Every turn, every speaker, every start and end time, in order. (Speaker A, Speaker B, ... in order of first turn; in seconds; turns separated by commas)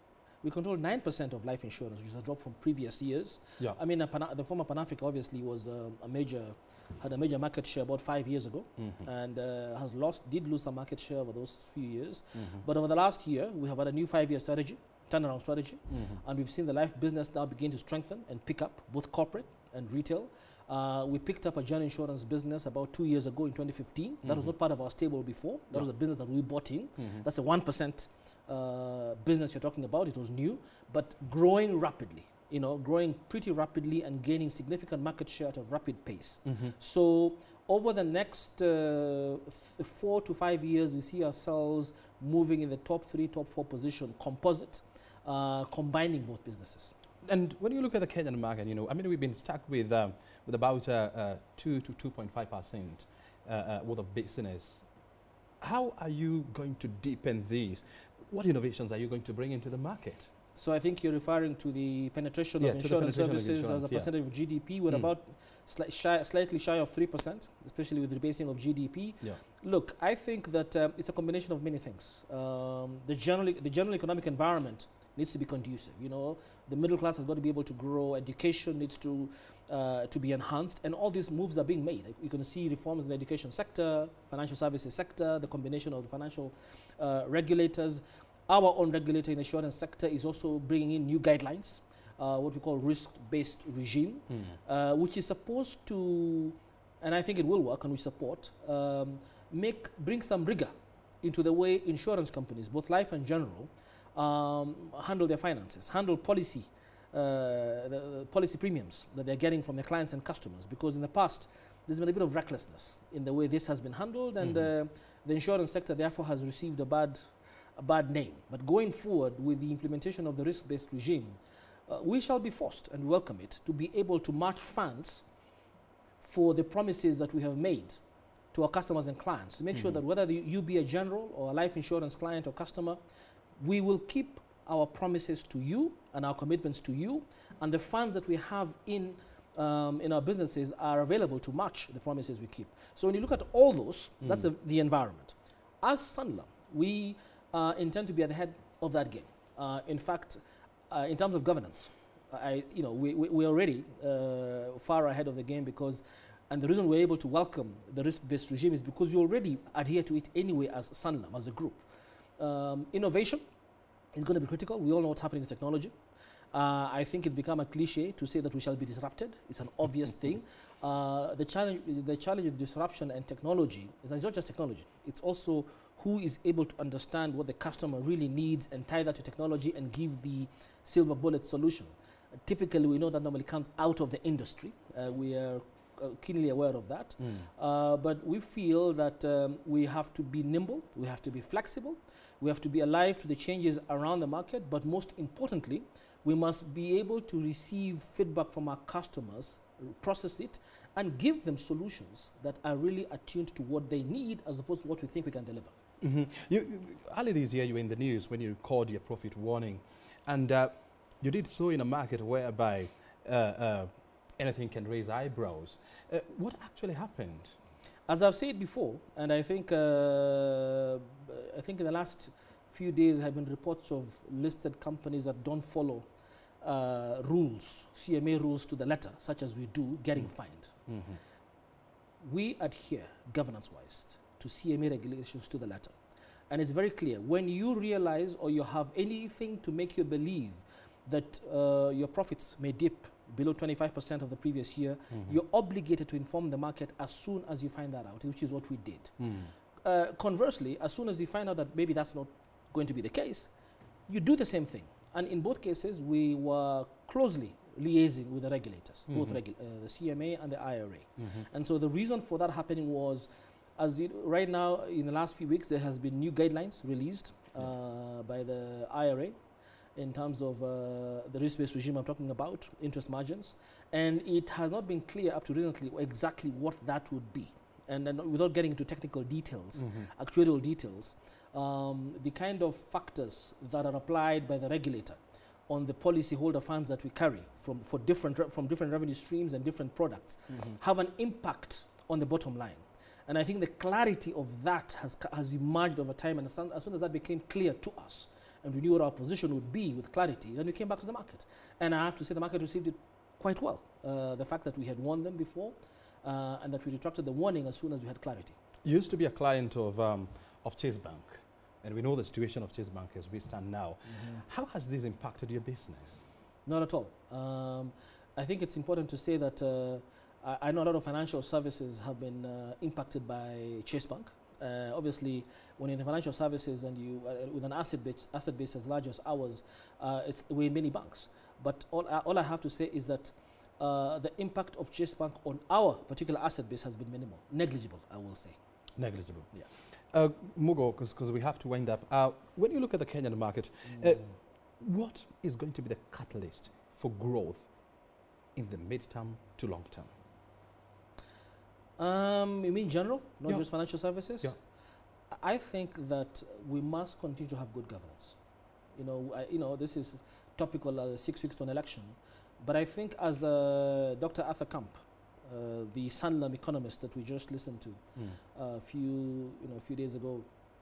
Speaker A: 0.4-46.9, Speaker B: 8.8-9.0, Speaker B: 12.3-12.6, Speaker B: 15.9-16.2, Speaker B: 24.2-24.5, Speaker B: 27.0-27.2, Speaker B: 36.4-36.7, Speaker B: 47.2-54.8, Speaker B: 55.6-60.3, Speaker A: 60.5-125.2, Speaker B: 62.6-64.1, Speaker B: 94.3-94.5, Speaker A: 126.2-128.0, Speaker A: 128.5-133.0, Speaker A: 133.6-161.9, Speaker B: 144.2-144.5, Speaker A: 162.4-163.4, Speaker A: 164.1-165.9, Speaker A: 166.5-205.7, Speaker B: 206.0-217.6, Speaker A: 218.1-226.1, Speaker A: 226.6-230.7, Speaker B: 230.9-231.2, Speaker A: 232.2-235.9, Speaker A: 236.5-249.2, Speaker B: 249.2-249.5, Speaker A: 249.8-253.5, Speaker A: 254.1-269.4, Speaker B: 259.1-259.4, Speaker A: 269.9-308.6, Speaker B: 279.8-280.1, Speaker B: 308.8-316.3, Speaker A: 314.1-314.4, Speaker A: 316.6-338.6, Speaker B: 339.0-347.7, Speaker B: 348.5-350.1, Speaker A: 352.0-354.6, Speaker A: 355.3-358.4, Speaker A: 358.9-370.5